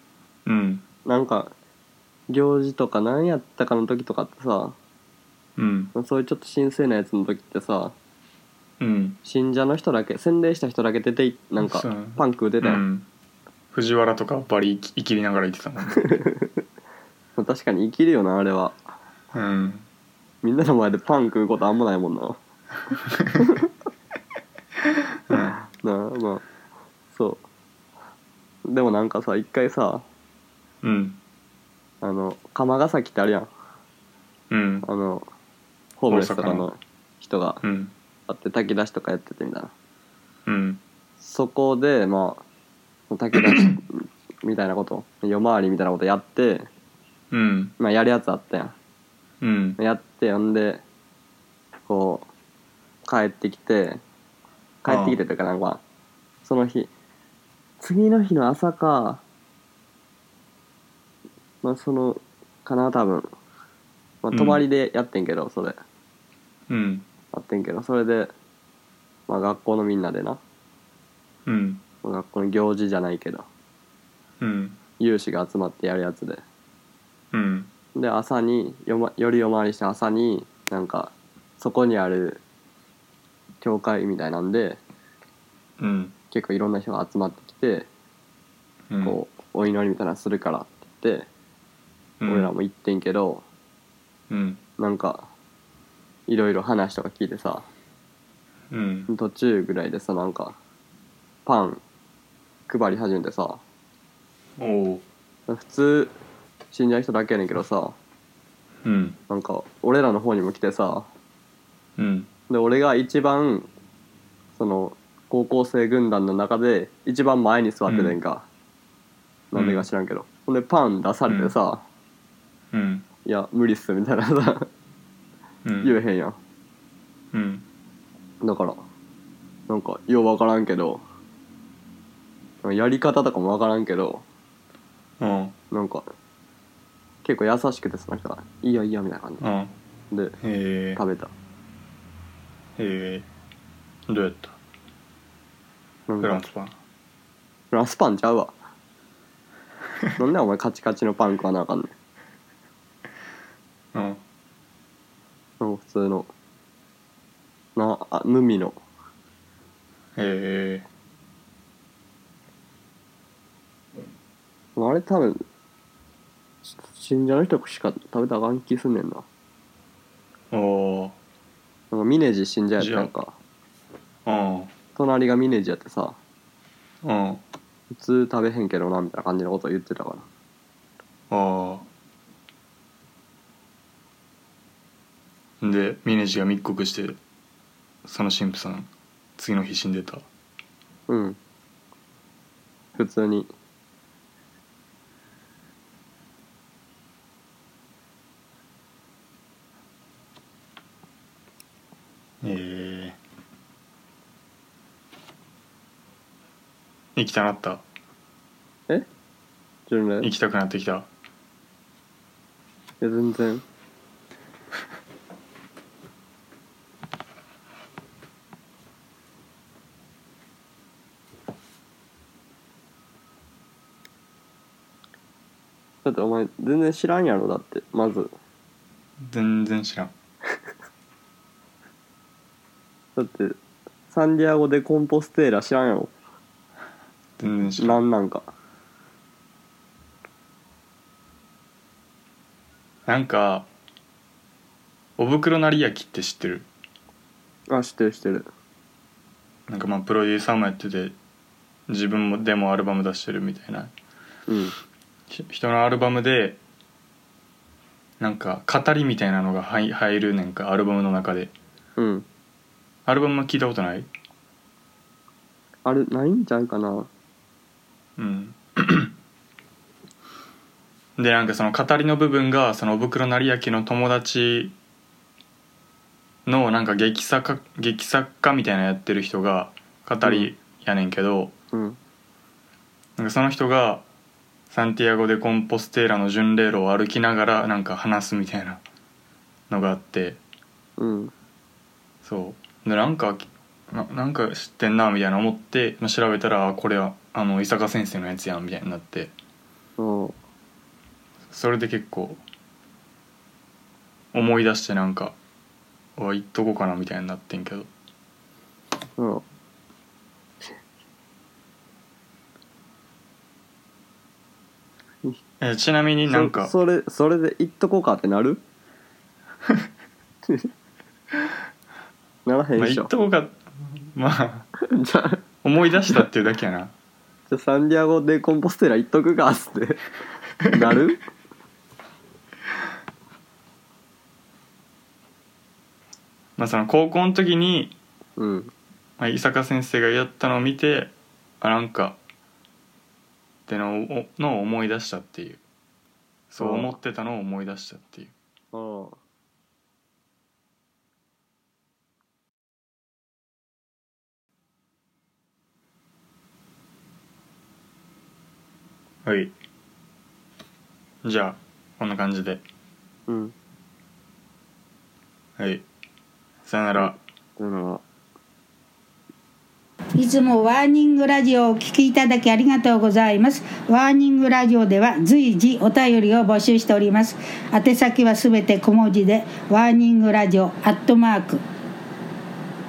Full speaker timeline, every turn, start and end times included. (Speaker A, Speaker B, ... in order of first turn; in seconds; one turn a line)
Speaker A: 0.5-0.8
Speaker B: 1.1-1.5
Speaker B: 2.3-4.8
Speaker A: 5.6-5.9
Speaker B: 5.9-8.0
Speaker A: 8.8-9.2
Speaker B: 9.2-12.8
Speaker A: 11.6-13.1
Speaker A: 13.7-16.1
Speaker B: 16.0-16.5
Speaker B: 17.4-18.8
Speaker A: 19.3-19.9
Speaker B: 20.4-22.4
Speaker B: 23.4-23.6
Speaker A: 25.3-25.6
Speaker B: 25.3-26.4
Speaker B: 27.1-27.4
Speaker B: 28.7-30.1
Speaker A: 30.8-31.2
Speaker B: 32.0-33.5
Speaker A: 34.5-34.9
Speaker B: 34.9-35.3
Speaker B: 36.0-37.6
Speaker A: 36.1-36.7
Speaker A: 37.6-37.9
Speaker B: 38.3-39.7
Speaker A: 40.5-40.8
Speaker B: 41.2-42.4
Speaker B: 43.1-46.7
Speaker A: 43.4-43.6
Speaker A: 47.3-47.8
Speaker B: 47.8-48.8
Speaker A: 49.4-49.8
Speaker B: 49.8-50.8
Speaker B: 51.9-52.3
Speaker B: 53.0-54.0
Speaker B: 54.8-55.8
Speaker A: 54.9-55.2
Speaker B: 56.5-56.9
Speaker B: 57.8-59.2
Speaker B: 61.6-63.3
Speaker B: 64.2-65.8
Speaker A: 64.3-64.6
Speaker A: 66.7-67.1
Speaker B: 67.3-68.3
Speaker B: 69.3-70.4
Speaker A: 71.5-71.8
Speaker B: 72.0-73.5
Speaker A: 74.4-74.8
Speaker B: 75.0-76.4
Speaker A: 77.3-77.7
Speaker B: 78.0-82.4
Speaker B: 83.6-84.8
Speaker A: 85.8-86.2
Speaker B: 86.3-87.9
Speaker A: 88.9-89.2
Speaker B: 89.0-91.3
Speaker A: 92.2-92.5
Speaker B: 92.3-93.4
Speaker A: 94.3-94.6
Speaker B: 94.8-95.3
Speaker B: 96.3-97.7
Speaker A: 98.7-99.1
Speaker B: 99.1-100.6
Speaker B: 101.5-101.8
Speaker B: 102.7-103.6
Speaker A: 104.6-105.0
Speaker B: 105.5-106.2
Speaker B: 106.7-108.0
Speaker A: 108.8-109.2
Speaker B: 109.3-111.1
Speaker A: 112.0-112.3
Speaker B: 112.5-113.7
Speaker B: 114.6-118.5
Speaker A: 117.9-118.2
Speaker B: 119.5-121.8
Speaker A: 119.5-119.8
Speaker A: 121.3-121.5
Speaker A: 122.7-123.1
Speaker B: 123.2-124.7
Speaker A: 125.6-126.0
Speaker B: 125.8-126.4
Speaker A: 127.3-127.7
Speaker B: 128.4-128.8
Speaker B: 129.7-131.0
Speaker B: 132.6-134.2
Speaker A: 135.2-135.6
Speaker B: 135.7-136.1
Speaker B: 137.2-139.5
Speaker A: 139.4-139.7
Speaker B: 140.1-140.4
Speaker A: 140.4-141.0
Speaker B: 141.0-141.3
Speaker A: 142.8-143.3
Speaker A: 144.1-144.6
Speaker B: 146.1-146.5
Speaker A: 146.2-146.8
Speaker B: 147.7-148.5
Speaker B: 150.2-151.9
Speaker A: 153.9-154.2
Speaker B: 155.6-156.3
Speaker B: 157.8-158.8
Speaker A: 160.2-160.9
Speaker B: 164.8-165.4
Speaker B: 166.7-169.2
Speaker A: 170.5-171.2
Speaker B: 171.9-173.4
Speaker A: 172.8-173.1
Speaker A: 174.3-174.7
Speaker B: 175.0-176.2
Speaker A: 177.0-177.4
Speaker B: 177.9-180.3
Speaker A: 181.3-181.9
Speaker A: 185.6-187.2
Speaker A: 188.1-190.3
Speaker B: 191.1-191.4
Speaker B: 193.0-193.5
Speaker A: 202.4-203.2
Speaker A: 207.2-207.8
Speaker B: 209.9-210.3
Speaker A: 210.2-211.1
Speaker B: 213.0-213.6
Speaker B: 226.0-228.3
Speaker A: 229.2-230.1
Speaker B: 233.2-233.6
Speaker B: 234.1-236.1
Speaker A: 237.4-238.0
Speaker B: 237.8-238.5
Speaker A: 243.1-243.7
Speaker A: 245.2-246.7
Speaker B: 247.7-248.5
Speaker A: 249.7-251.2
Speaker A: 251.9-253.9
Speaker B: 254.5-254.8
Speaker A: 255.3-256.6
Speaker A: 258.2-261.5
Speaker B: 262.0-262.3
Speaker A: 263.1-264.1
Speaker B: 265.9-267.1
Speaker A: 268.2-269.1
Speaker A: 271.2-274.8
Speaker A: 276.5-281.5
Speaker B: 280.2-280.5
Speaker B: 281.7-282.0
Speaker A: 283.2-284.1
Speaker A: 284.7-288.8
Speaker A: 289.7-290.4
Speaker B: 291.0-291.3
Speaker A: 292.2-299.3
Speaker B: 300.0-300.4
Speaker A: 301.5-302.4
Speaker A: 304.3-305.4
Speaker A: 306.2-307.9
Speaker B: 309.2-309.4
Speaker A: 315.6-316.7
Speaker B: 316.2-318.6
Speaker B: 322.4-323.1
Speaker A: 322.8-324.7
Speaker B: 324.8-325.4
Speaker A: 325.6-326.9
Speaker B: 327.5-330.0
Speaker A: 330.6-331.0
Speaker B: 330.7-331.2
Speaker A: 336.6-338.0
Speaker B: 338.4-338.7
Speaker A: 339.2-342.2
Speaker A: 343.7-345.6
Speaker A: 346.5-348.3
Speaker B: 346.6-346.9
Speaker B: 348.7-349.2
Speaker A: 359.2-359.5
Speaker A: 361.2-362.6
Speaker B: 363.3-363.5
Speaker A: 365.6-365.9
Speaker A: 366.6-367.2
Speaker B: 367.0-368.0
Speaker C: 370.2-381.6